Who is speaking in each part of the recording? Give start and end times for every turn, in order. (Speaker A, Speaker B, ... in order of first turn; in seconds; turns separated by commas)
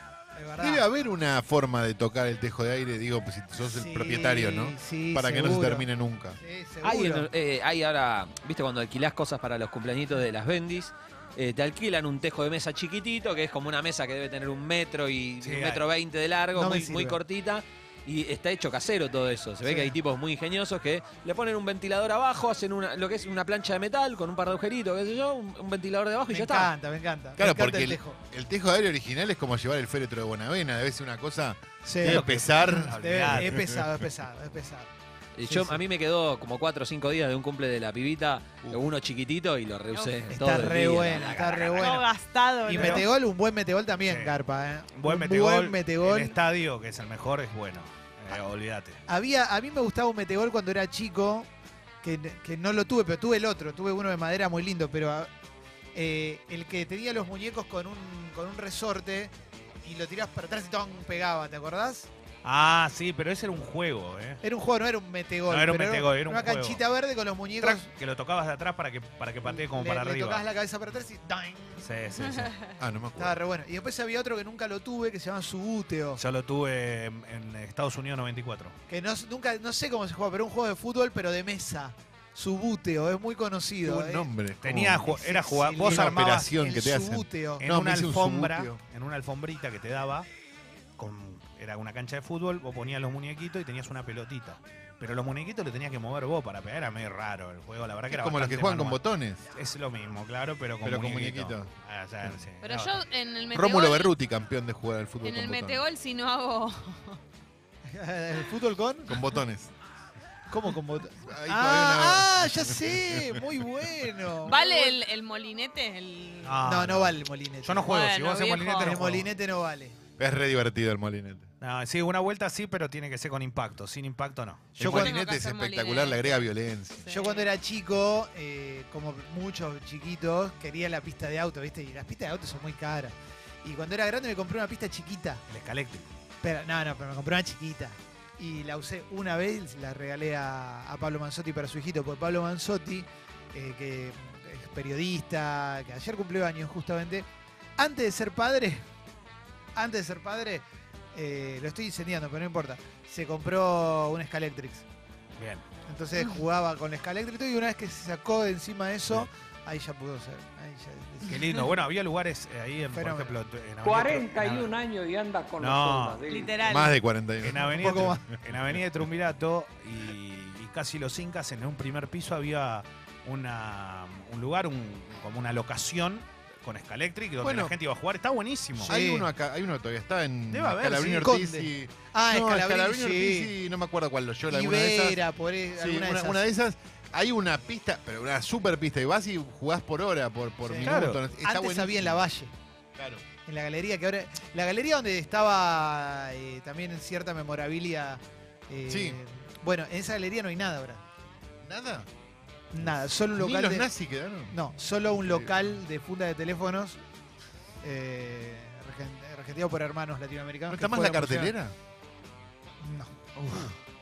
Speaker A: 0.3-0.8, Speaker B: 0.6-6.4, Speaker A: 3.6-7.3, Speaker C: 6.8-26.7, Speaker D: 15.4-15.9, Speaker A: 16.5-17.2, Speaker A: 19.6-19.9, Speaker A: 26.3-28.2, Speaker B: 27.4-33.7, Speaker A: 31.8-34.9, Speaker D: 32.0-33.6, Speaker C: 35.4-41.8, Speaker A: 35.4-35.8, Speaker E: 39.9-40.4, Speaker A: 40.3-42.1, Speaker E: 41.3-43.0, Speaker D: 41.6-42.0, Speaker A: 42.6-46.4, Speaker D: 42.7-43.1, Speaker D: 44.0-44.4, Speaker D: 44.9-49.0, Speaker A: 49.1-51.5, Speaker A: 52.0-55.3, Speaker A: 55.9-59.3, Speaker A: 59.8-62.1, Speaker D: 62.4-64.4, Speaker A: 64.4-67.9, Speaker D: 65.5-66.8, Speaker D: 67.6-70.5, Speaker A: 69.4-71.9, Speaker D: 71.8-72.5, Speaker B: 72.8-73.4, Speaker A: 73.2-76.2, Speaker D: 76.2-78.8, Speaker A: 78.9-84.3, Speaker B: 83.8-85.2, Speaker D: 84.6-86.5, Speaker A: 85.1-87.7, Speaker B: 85.8-88.8, Speaker D: 87.6-90.3, Speaker D: 91.0-103.0, Speaker B: 98.1-99.4, Speaker B: 100.8-101.7, Speaker E: 102.6-104.2, Speaker B: 103.5-105.8, Speaker E: 105.2-107.2, Speaker A: 107.9-109.2, Speaker B: 109.1-109.7, Speaker A: 110.5-115.0, Speaker B: 111.2-113.4, Speaker E: 114.5-116.6, Speaker D: 116.4-119.3, Speaker A: 116.6-117.9, Speaker E: 117.9-118.9, Speaker A: 118.8-120.0, Speaker B: 120.2-121.5, Speaker D: 121.6-125.2, Speaker B: 124.8-127.1, Speaker E: 124.9-127.5, Speaker A: 127.1-135.4, Speaker D: 135.5-136.1, Speaker A: 136.4-148.9, Speaker A: 149.8-154.8, Speaker D: 155.4-155.7, Speaker A: 155.9-161.5, Speaker D: 161.3-164.7, Speaker A: 162.9-163.4, Speaker F: 163.9-166.5, Speaker D: 165.6-166.3, Speaker E: 166.3-166.9, Speaker B: 166.6-168.1, Speaker D: 167.4-179.0, Speaker A: 167.6-168.2, Speaker B: 177.4-177.8, Speaker A: 178.8-179.3, Speaker B: 178.8-185.2, Speaker D: 180.5-181.4, Speaker A: 181.2-183.5, Speaker A: 184.5-186.5, Speaker B: 185.8-192.2, Speaker A: 190.6-192.5, Speaker D: 190.8-191.2, Speaker B: 193.0-193.2, Speaker A: 193.5-201.0, Speaker B: 198.9-199.2, Speaker B: 201.6-202.1, Speaker A: 202.7-203.9, Speaker B: 202.8-204.6, Speaker A: 204.5-207.0, Speaker B: 205.2-205.8, Speaker A: 207.8-211.6, Speaker B: 210.7-211.8, Speaker A: 212.8-213.7